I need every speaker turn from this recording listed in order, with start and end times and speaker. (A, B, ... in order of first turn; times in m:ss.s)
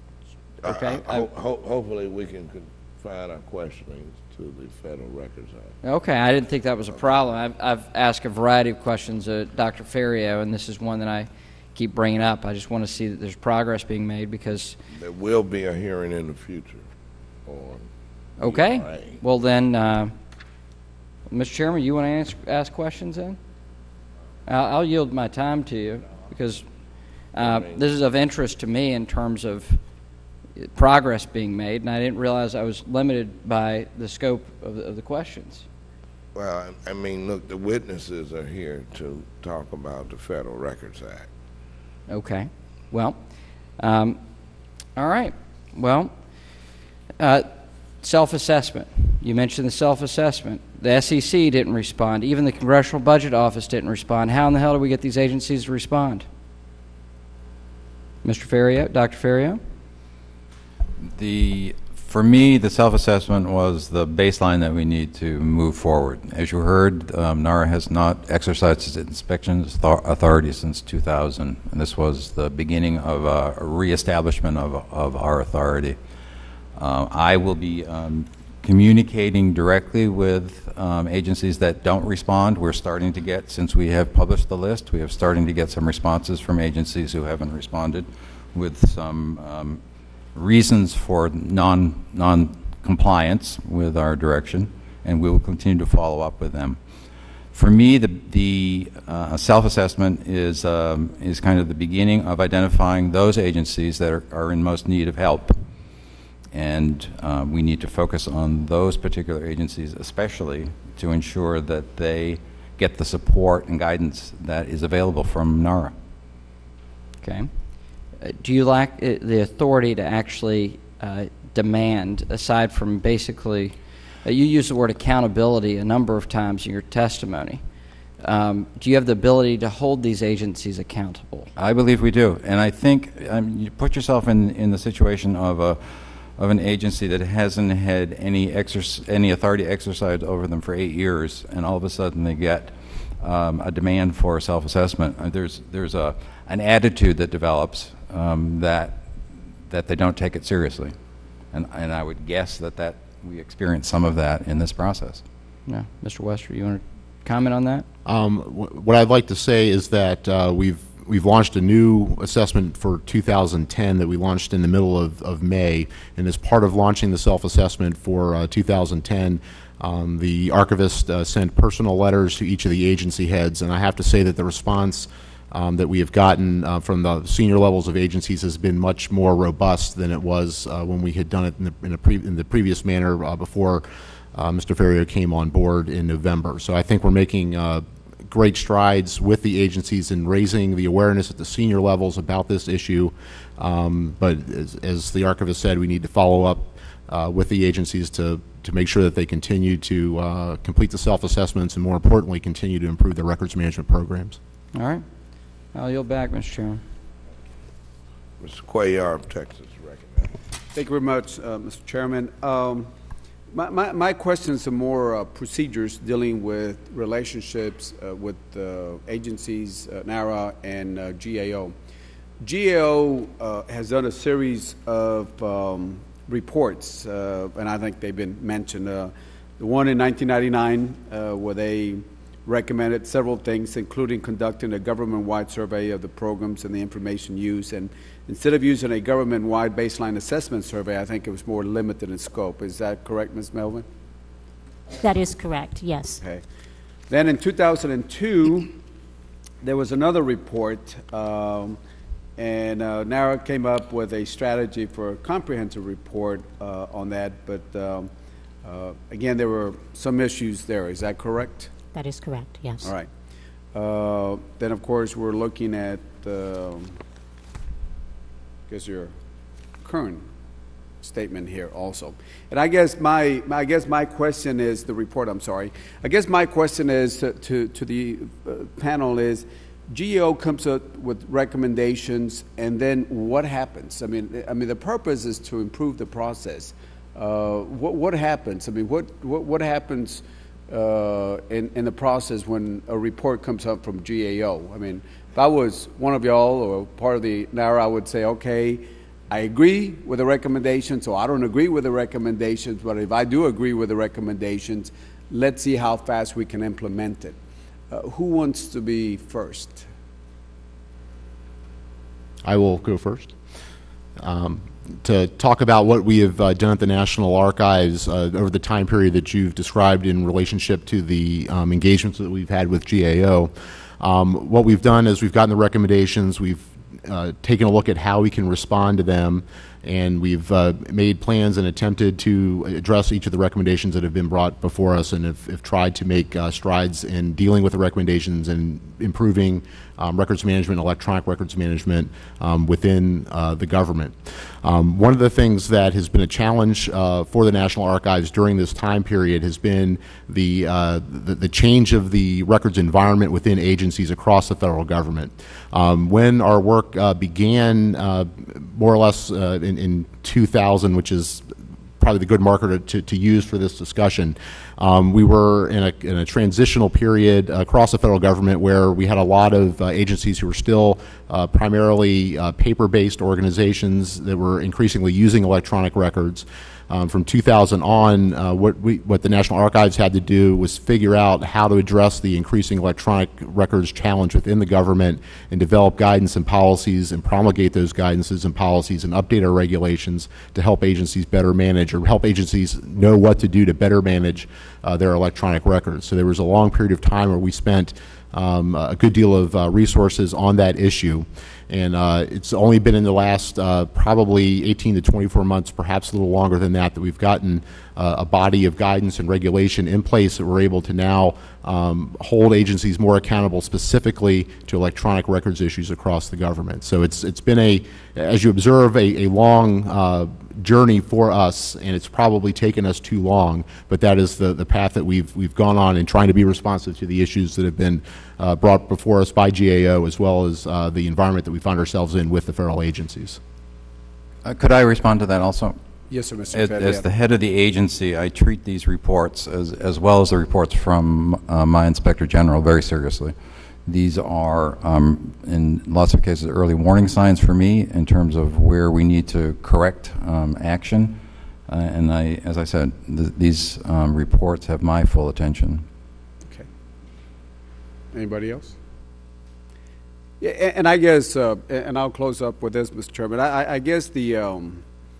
0:00.6-0:01.3 A
0:00.6-0:05.7 B
0:05.8-0:14.8 A
0:14.9-0:16.8 B
0:17.4-0:17.8 B
0:18.4-0:20.1 A
0:18.4-0:19.2 B
0:21.3-0:23.4 A
0:24.4-0:26.6 A
0:27.3-0:29.8 A
0:27.4-0:27.8 B
0:30.6-0:35.6 A
0:36.3-0:41.3 B
0:42.1-0:43.2 A
0:43.8-0:44.2 A
0:45.0-0:46.1 A
0:47.2-0:47.5 A
0:48.0-0:56.2 A
0:58.2-0:59.6 A
1:01.0-1:16.0 C
1:16.7-1:29.8 C
1:30.3-1:36.8 C
1:37.5-1:45.6 C
1:46.5-1:55.9 C
1:57.2-1:57.5 A
1:58.2-2:07.6 A
2:08.2-2:11.5 A
2:11.6-2:29.1 C
2:29.7-2:30.9 C
2:31.5-2:35.2 C
2:35.7-2:37.8 A
2:38.0-3:24.4 D
3:24.7-3:25.0 A
3:25.7-3:26.8 A
3:28.4-3:30.3 B
3:30.7-3:32.9 E
3:33.5-3:41.7 E
3:42.4-4:03.8 E
4:05.0-4:06.2 F
4:07.1-4:08.7 E
4:09.6-4:11.8 E
4:12.4-4:18.1 E
4:18.6-4:21.7 E
4:21.9-4:22.9 F
4:22.8-4:23.1 E
4:23.7-4:27.0 E
4:28.7-4:29.1 E
4:29.8-4:30.2 E
4:31.0-5:07.4 E
5:07.9-5:09.9 E
5:12.4-5:13.3 D
5:14.2-7:13.4 D
7:14.4-7:15.8 C
7:16.1-7:17.1 E
7:16.5-7:23.3 C
7:23.8-7:35.8 C
7:38.1-7:38.8 E
7:40.4-7:44.8 E